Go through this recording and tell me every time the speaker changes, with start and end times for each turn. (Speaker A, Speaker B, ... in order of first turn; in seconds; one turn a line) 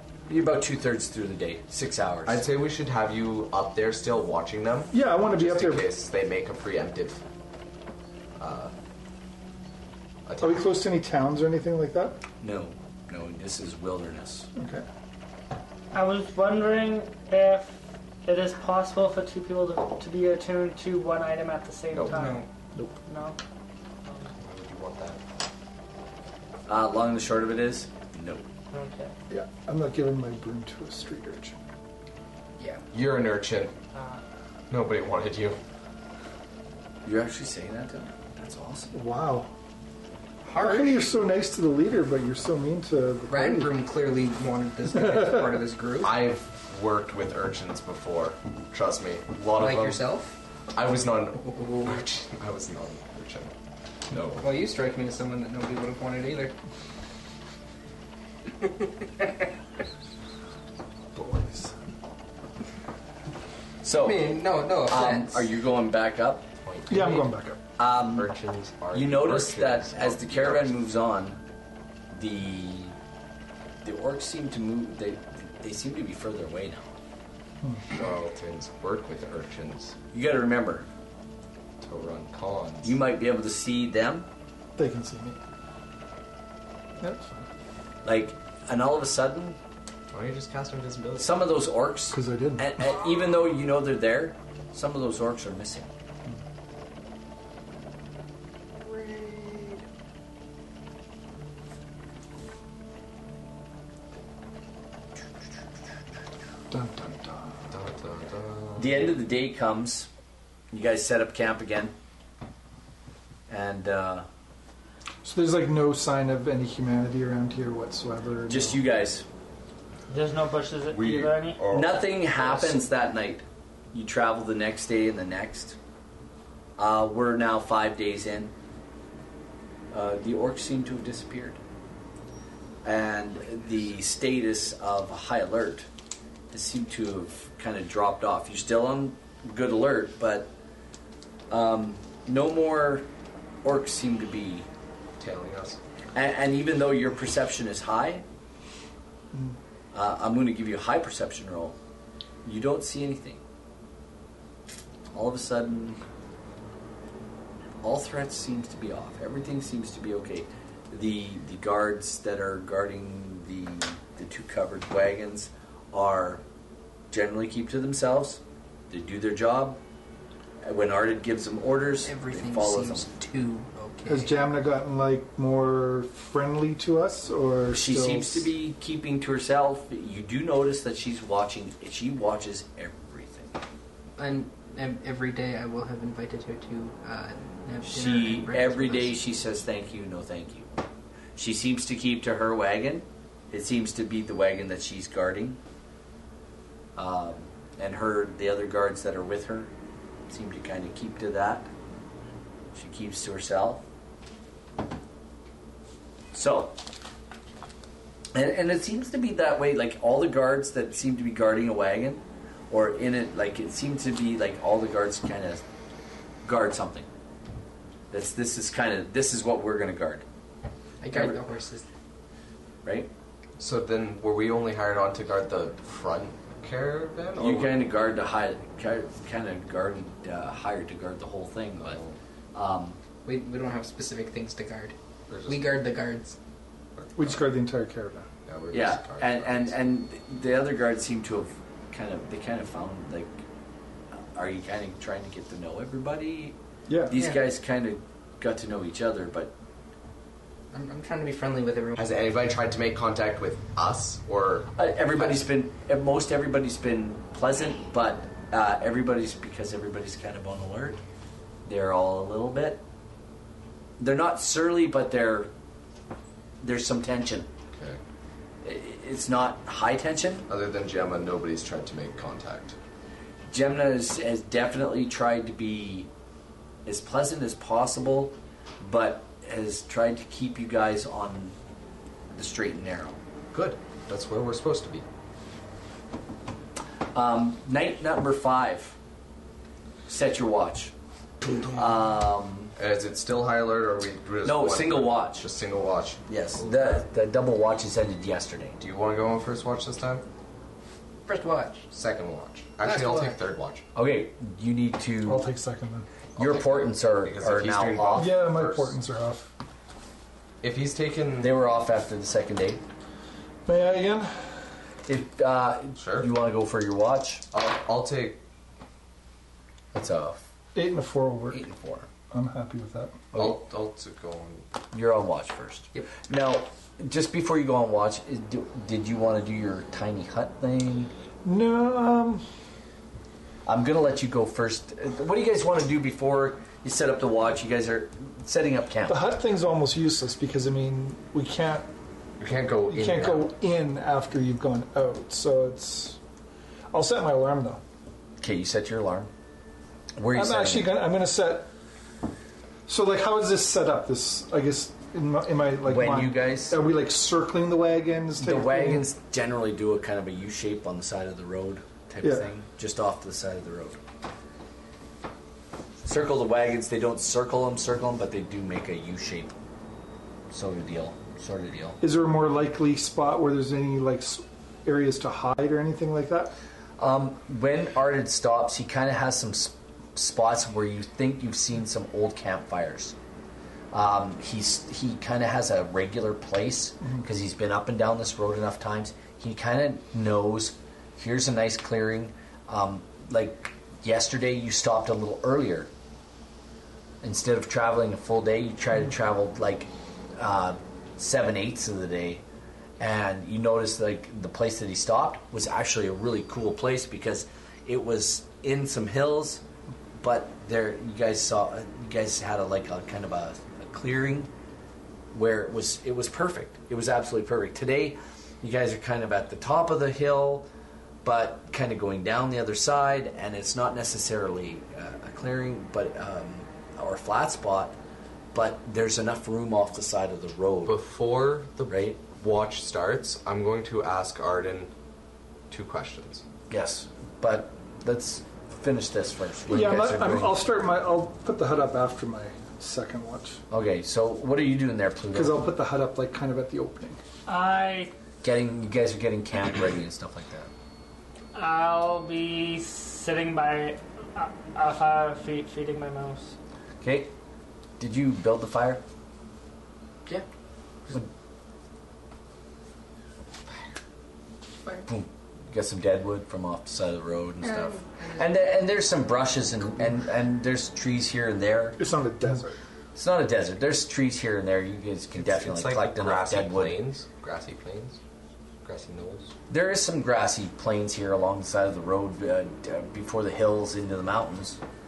Speaker A: 0.3-2.4
Speaker B: 2.3-7.2
Speaker C: 4.9-5.9
Speaker B: 8.4-8.7
Speaker B: 10.3-10.7
Speaker C: 10.4-12.2
Speaker A: 12.4-14.5
Speaker C: 14.6-14.9
Speaker D: 15.9-22.4
Speaker B: 21.9-22.3
Speaker E: 22.1-22.5
Speaker D: 23.1-23.4
Speaker D: 24.1-24.3
Speaker B: 24.4-25.2
Speaker A: 26.7-28.5
Speaker D: 28.7-29.1
Speaker C: 29.3-31.6
Speaker E: 32.6-32.8
Speaker B: 32.9-33.7
Speaker D: 33.9-34.2
Speaker B: 34.7-35.6
Speaker A: 37.0-39.0
Speaker C: 38.9-39.5
Speaker E: 40.4-41.1
Speaker C: 40.6-43.7
Speaker E: 43.3-46.2
Speaker C: 45.0-45.4
Speaker B: 46.0-50.0
Speaker E: 49.6-50.4
Speaker B: 50.7-53.5
Speaker E: 51.5-51.8
Speaker B: 54.1-54.5
Speaker E: 54.4-56.6
Speaker C: 61.1-61.7
Speaker A: 63.8-66.5
Speaker E: 64.0-65.5
Speaker B: 66.6-67.3
Speaker C: 66.9-67.6
Speaker A: 67.8-68.3
Speaker B: 68.1-70.8
Speaker A: 68.9-71.4
Speaker A: 72.1-73.0
Speaker A: 73.8-76.9
Speaker B: 77.9-80.0
Speaker A: 80.1-80.9
Speaker B: 81.8-83.0
Speaker A: 82.8-84.3
Speaker C: 84.8-85.4
Speaker C: 87.0-87.4
Speaker A: 88.0-89.6
Speaker B: 90.1-91.5
Speaker A: 91.2-95.9
Speaker C: 92.1-92.9
Speaker E: 98.8-99.8
Speaker C: 106.7-107.7
Speaker B: 107.7-109.1
Speaker A: 108.8-110.1
Speaker A: 110.7-111.9
Speaker A: 113.5-114.3
Speaker C: 115.2-118.8
Speaker A: 118.5-119.2
Speaker D: 120.1-121.7
Speaker B: 120.9-122.8
Speaker A: 121.7-125.8
Speaker A: 126.8-128.5
Speaker A: 129.9-131.6
Speaker A: 132.8-135.9
Speaker A: 136.5-140.5
Speaker A: 141.5-143.1
Speaker A: 143.6-144.7
Speaker B: 145.2-145.8
Speaker A: 146.1-148.2
Speaker A: 149.9-151.8
Speaker A: 152.4-153.4
Speaker A: 155.1-156.0
Speaker A: 157.8-166.4
Speaker A: 167.1-169.8
Speaker A: 170.6-173.1
Speaker E: 172.0-174.3
Speaker C: 174.1-178.5
Speaker A: 177.7-183.6
Speaker E: 184.2-189.2
Speaker A: 187.8-190.7
Speaker A: 191.4-195.6
Speaker A: 197.0-199.7
Speaker A: 200.3-201.7
Speaker A: 202.7-203.8
Speaker A: 206.3-206.8
Speaker A: 208.3-215.6
Speaker A: 216.4-217.1
Speaker A: 218.1-220.2
Speaker E: 221.0-221.8
Speaker A: 221.1-221.4
Speaker A: 222.8-223.1
Speaker B: 223.6-227.8
Speaker A: 227.4-232.0
Speaker B: 231.8-232.2
Speaker A: 232.5-233.0
Speaker E: 233.2-234.9
Speaker B: 235.3-235.8
Speaker E: 235.5-236.4
Speaker B: 237.0-237.5
Speaker C: 237.2-238.3
Speaker B: 238.5-239.8
Speaker A: 238.7-243.4
Speaker A: 244.2-246.6
Speaker C: 246.9-247.1
Speaker A: 247.1-249.5
Speaker E: 247.1-247.4
Speaker E: 250.7-252.0
Speaker B: 252.0-255.4
Speaker A: 254.8-261.0
Speaker A: 261.7-262.8
Speaker A: 264.0-265.5
Speaker A: 266.6-267.5
Speaker B: 267.7-268.0
Speaker A: 268.6-270.5
Speaker B: 270.5-272.8
Speaker A: 273.5-276.1
Speaker A: 276.9-281.6
Speaker A: 282.4-283.2
Speaker B: 283.5-285.1
Speaker A: 287.1-289.0
Speaker A: 290.1-290.9
Speaker B: 291.4-291.8
Speaker A: 291.7-292.7
Speaker B: 292.8-297.0
Speaker A: 294.4-295.5
Speaker A: 296.3-298.8
Speaker B: 298.8-300.2
Speaker E: 301.3-301.9
Speaker B: 301.9-303.9
Speaker E: 302.8-303.4
Speaker A: 303.9-305.5
Speaker C: 305.2-306.1
Speaker A: 306.4-308.4
Speaker B: 306.4-308.9
Speaker C: 308.1-309.5
Speaker B: 310.6-311.5
Speaker A: 311.4-312.8
Speaker C: 313.7-314.6
Speaker A: 315.1-317.5
Speaker B: 316.0-316.3
Speaker B: 317.5-318.4
Speaker A: 319.9-320.4
Speaker C: 320.7-321.6
Speaker A: 321.5-322.1
Speaker C: 322.3-323.2
Speaker A: 323.3-323.6
Speaker B: 323.3-324.7
Speaker A: 324.9-331.1
Speaker C: 331.4-332.4
Speaker A: 333.7-339.2
Speaker C: 339.1-341.9
Speaker B: 342.4-343.5
Speaker C: 342.9-346.2
Speaker C: 346.9-347.8
Speaker A: 348.4-349.3
Speaker A: 350.2-351.0
Speaker C: 350.3-351.7
Speaker C: 352.9-359.1
Speaker A: 355.9-356.8
Speaker A: 358.4-364.0
Speaker C: 362.2-362.5
Speaker A: 366.0-369.5
Speaker A: 370.5-372.0
Speaker C: 372.0-376.5
Speaker A: 377.0-383.1
Speaker A: 383.9-395.9
Speaker A: 397.2-402.4
Speaker A: 403.0-409.6
Speaker A: 410.2-414.5
Speaker A: 415.3-420.7
Speaker A: 421.2-428.0
Speaker A: 428.5-431.0
Speaker B: 430.9-434.9
Speaker A: 431.9-432.2
Speaker B: 435.7-436.4
Speaker A: 436.7-440.6
Speaker C: 439.7-443.6
Speaker A: 443.7-445.6
Speaker C: 445.3-447.2
Speaker D: 447.5-448.1
Speaker A: 448.4-450.7
Speaker D: 451.5-456.6
Speaker A: 457.0-457.3
Speaker A: 458.0-459.0
Speaker A: 465.1-472.0
Speaker E: 467.6-468.6
Speaker C: 472.0-472.8
Speaker A: 473.1-477.0
Speaker B: 475.4-478.2
Speaker B: 478.8-479.5
Speaker A: 479.7-484.8